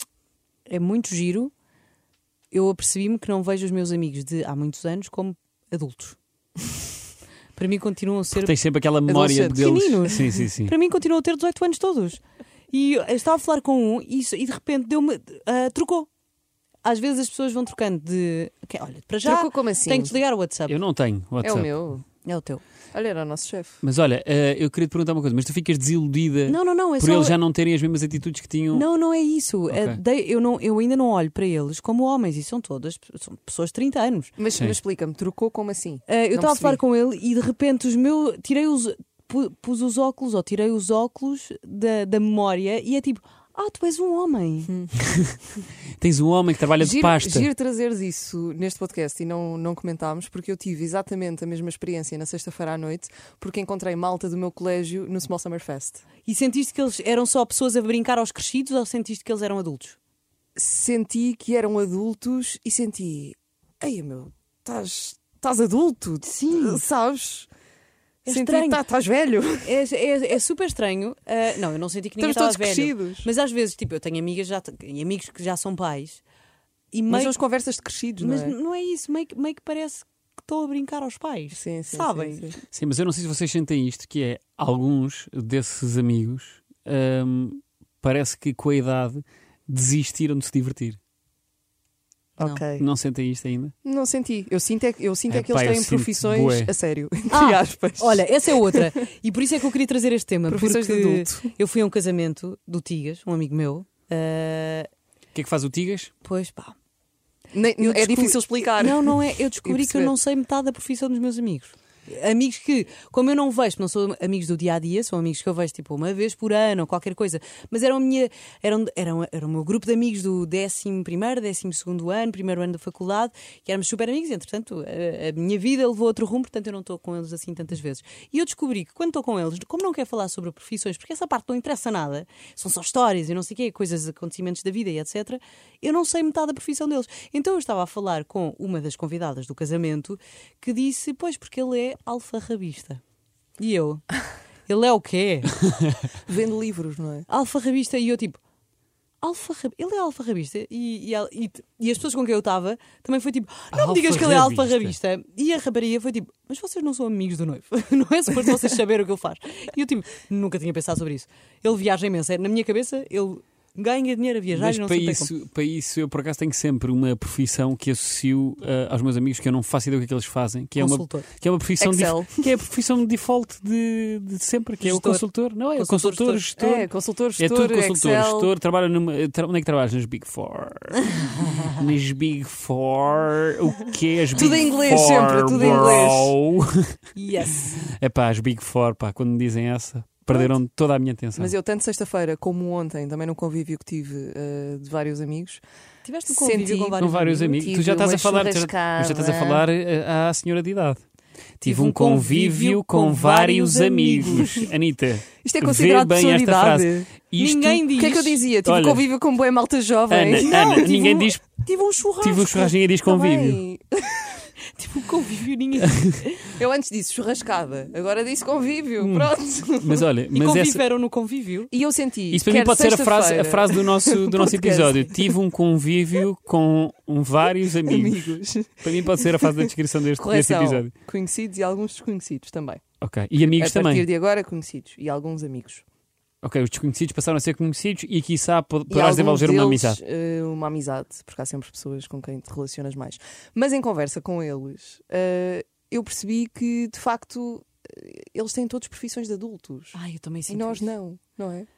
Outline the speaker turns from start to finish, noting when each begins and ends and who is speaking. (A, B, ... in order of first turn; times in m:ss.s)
0:00.7-0:01.5 A
0:02.5-0:06.2 A
0:07.6-0:08.6 A
0:08.3-0:10.7 B
0:09.1-0:09.7 C
0:09.4-0:16.1 A
0:16.8-0:20.8 A
0:19.2-0:20.1 C
0:20.7-0:21.8 B
0:21.4-0:22.0 C
0:22.2-0:22.6 A
0:22.9-0:23.8 C
0:23.8-0:28.9 B
0:26.5-0:27.4 A
0:28.7-0:34.3 A
0:29.7-0:30.0 B
0:34.4-0:36.8 C
0:36.1-0:44.7 A
0:44.7-0:45.0 C
0:46.0-0:47.5 B
0:46.8-0:56.0 C
0:56.2-1:00.0 A
1:00.6-1:07.5 C
1:06.2-1:06.8 A
1:08.2-1:08.8 A
1:08.3-1:09.8 C
1:09.6-1:16.2 A
1:12.2-1:13.3 C
1:16.9-1:17.4 A
1:17.1-1:18.6 C
1:18.2-1:22.5 A
1:21.5-1:22.6 C
1:22.7-1:31.0 B
1:32.4-1:32.9 C
1:32.8-1:33.7 B
1:33.8-1:38.9 C
1:35.3-1:36.7 B
1:37.3-1:44.9 A
1:40.5-1:41.5 C
1:45.3-1:46.1 B
1:46.2-1:46.8 A
1:47.5-1:50.2 C
1:47.8-2:23.0 A
2:23.6-2:24.1 A
2:24.7-2:25.6 A
2:26.2-2:27.3 C
2:27.3-2:28.4 A
2:29.2-2:45.3 A
2:33.7-2:35.0 B
2:44.5-3:07.0 B
2:50.8-2:51.3 A
2:51.8-2:52.5 C
2:54.8-2:56.4 A
2:56.6-2:58.5 C
3:04.3-3:06.4 C
3:07.2-3:07.8 A
3:07.9-3:11.5 B
3:11.4-3:15.6 C
3:16.0-3:17.7 A
3:16.3-3:17.0 C
3:17.0-3:21.0 B
3:17.5-3:19.6 C
3:21.6-3:29.1 B
3:21.6-3:24.6 A
3:24.2-3:24.6 C
3:25.4-3:27.1 C
3:27.4-3:28.4 A
3:28.0-3:30.6 C
3:30.1-3:31.4 B
3:30.4-3:32.7 A
3:32.2-3:33.6 B
3:33.1-3:34.4 C
3:34.7-3:36.5 A
3:36.5-3:40.1 C
3:39.0-3:40.8 B
3:40.3-3:41.7 A
3:41.7-3:45.4 C
3:42.3-3:50.9 B
3:47.8-3:52.8 C
3:53.0-3:54.1 B
3:53.4-3:55.8 C
3:56.4-4:00.0 B
3:58.9-4:10.0 C
4:09.9-4:10.9 A
4:10.5-4:11.7 C